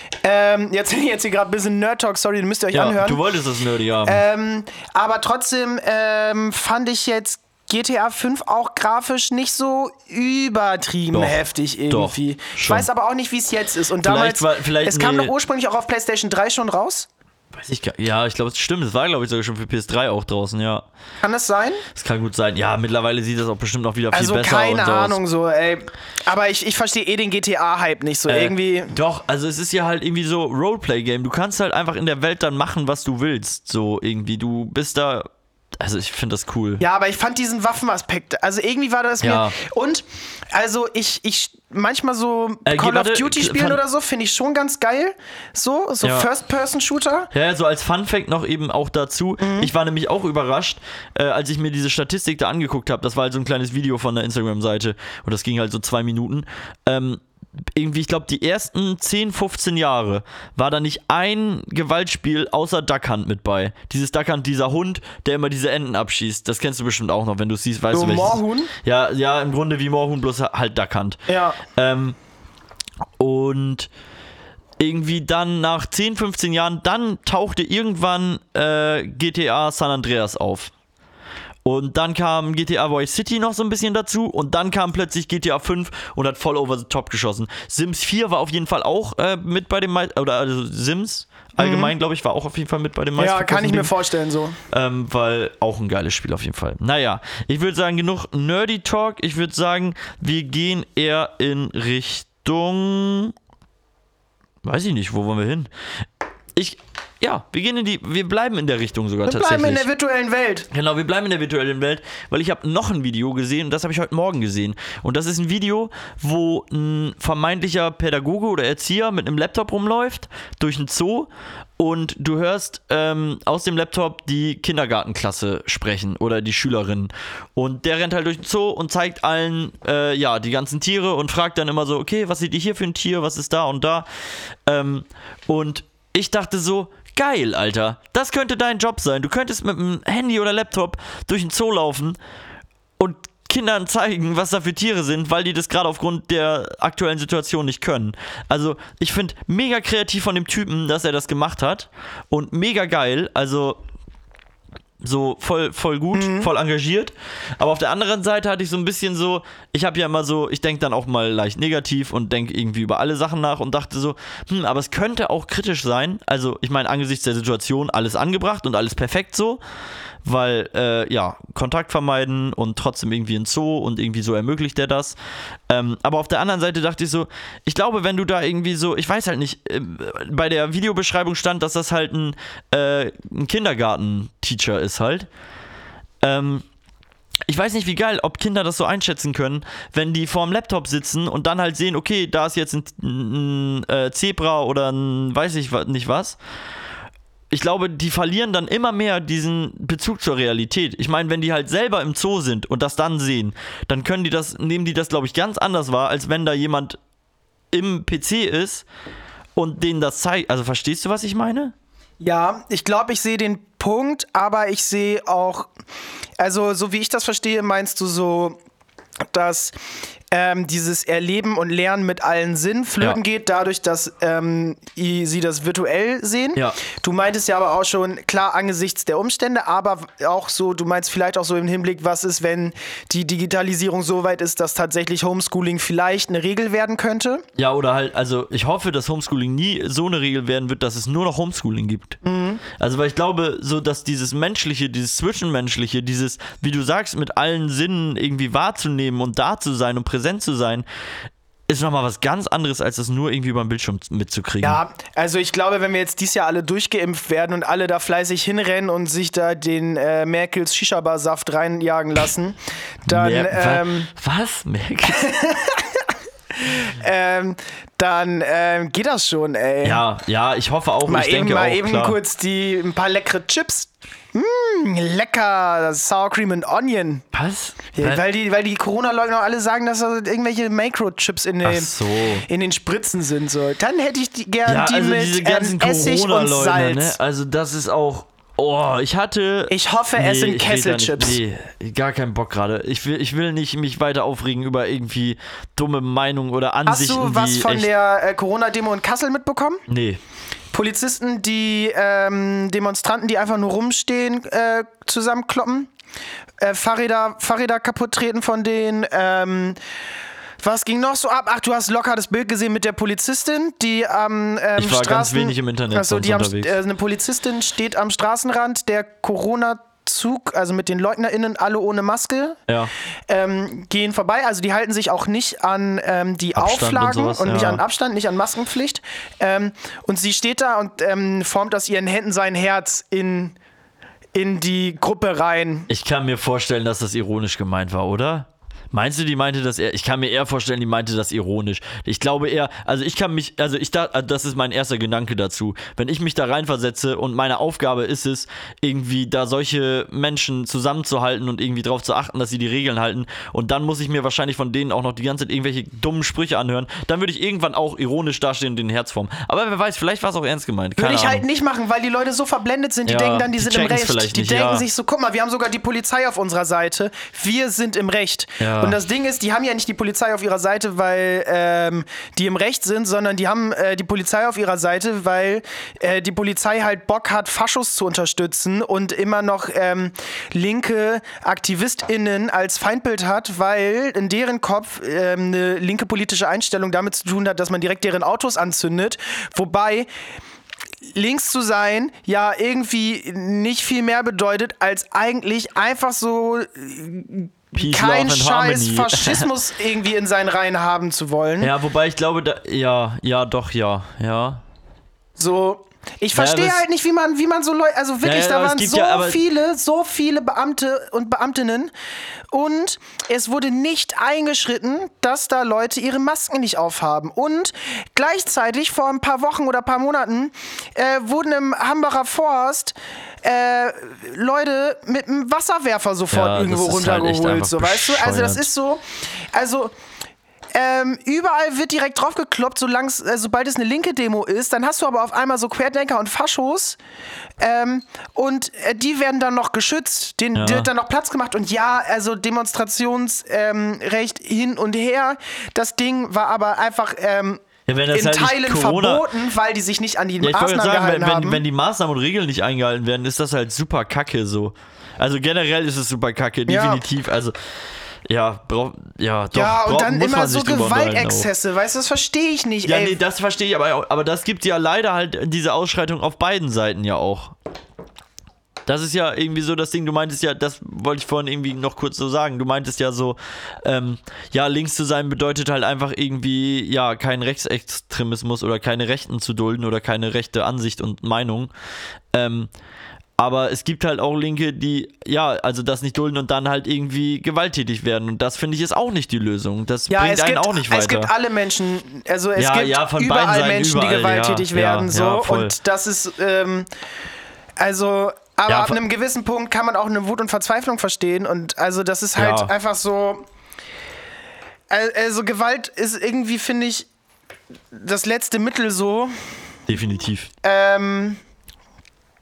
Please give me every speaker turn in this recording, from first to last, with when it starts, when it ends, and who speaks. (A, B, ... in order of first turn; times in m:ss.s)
0:00.2-0:03.2 A
0:02.7-0:04.2 B
0:04.0-0:17.1 A
0:11.1-0:12.9 B
0:14.0-0:15.3 B
0:17.5-0:20.8 B
0:21.2-0:21.8 A
0:21.9-0:25.2 B
0:24.1-0:28.9 A
0:28.3-0:36.8 B
0:36.8-0:47.3 A
0:39.2-0:39.6 B
0:42.6-0:43.8 B
0:46.0-0:46.3 B
0:47.3-0:57.2 B
0:49.4-0:49.7 A
0:57.7-1:12.2 B
1:07.9-1:08.7 A
1:11.3-1:11.6 A
1:13.2-1:13.9 B
1:14.8-1:20.7 B
1:21.6-1:33.9 B
1:31.6-1:31.9 A
1:33.2-1:34.6 A
1:34.7-1:43.3 B
1:44.6-1:45.7 B
1:46.5-1:49.8 B
1:49.2-1:50.7 A
1:50.7-2:14.1 B
2:14.6-2:22.2 B
2:23.0-2:33.8 B
2:35.0-2:49.6 B
2:36.1-2:36.5 A
2:50.2-2:55.2 B
2:55.7-3:05.3 B
3:06.2-3:06.6 B
3:07.5-3:16.4 B
3:17.5-3:27.0 B
3:27.7-3:28.8 B
3:29.6-3:31.7 B
3:32.2-3:35.7 A
3:36.4-3:38.6 A
3:39.3-3:39.7 A
3:40.3-3:57.4 A
3:57.6-4:10.8 B
4:02.2-4:02.6 A
4:11.7-4:14.8 B
4:14.6-4:24.1 A
4:23.1-4:25.3 B
4:25.1-4:26.0 A
4:26.6-4:30.0 A
4:29.8-4:32.2 B
4:31.1-4:37.2 A
4:37.3-4:38.2 B
4:37.9-4:41.9 A
4:41.6-4:42.4 B
4:42.5-4:47.2 A
4:44.6-4:57.9 B
4:49.7-4:51.4 A
4:56.8-4:59.8 A
4:59.9-5:00.2 B
5:00.7-5:05.9 A
5:06.6-5:09.8 A
5:10.6-5:22.6 A
5:14.8-5:16.8 B
5:23.3-5:33.6 A
5:26.6-5:27.8 B
5:34.3-5:35.9 A
5:35.9-6:01.4 B
6:01.0-6:30.1 A
6:03.0-6:04.8 B
6:08.6-6:09.0 B
6:31.1-6:41.7 A
6:37.7-6:39.5 B
6:41.6-6:44.6 B
6:45.4-6:51.9 A
6:46.3-6:46.8 B
6:48.2-6:49.4 B
6:52.5-7:09.0 A
7:06.3-7:08.7 B
7:09.5-7:09.9 A
7:10.7-7:17.0 A
7:17.6-7:31.6 A
7:20.5-7:20.9 B
7:27.9-7:29.3 B
7:30.4-7:37.5 B
7:36.7-7:37.0 A
7:38.2-7:41.5 B
7:39.5-7:43.2 A
7:42.8-7:47.5 B
7:48.8-8:01.7 B
8:02.3-8:02.7 B
8:03.4-8:11.3 B
8:10.1-8:16.9 A
8:12.6-8:15.7 B
8:17.8-8:23.4 A
8:18.7-8:19.0 B
8:22.4-8:22.7 B
8:24.9-8:27.1 A
8:27.9-8:29.4 A
8:29.9-8:30.5 B
8:30.6-8:31.4 A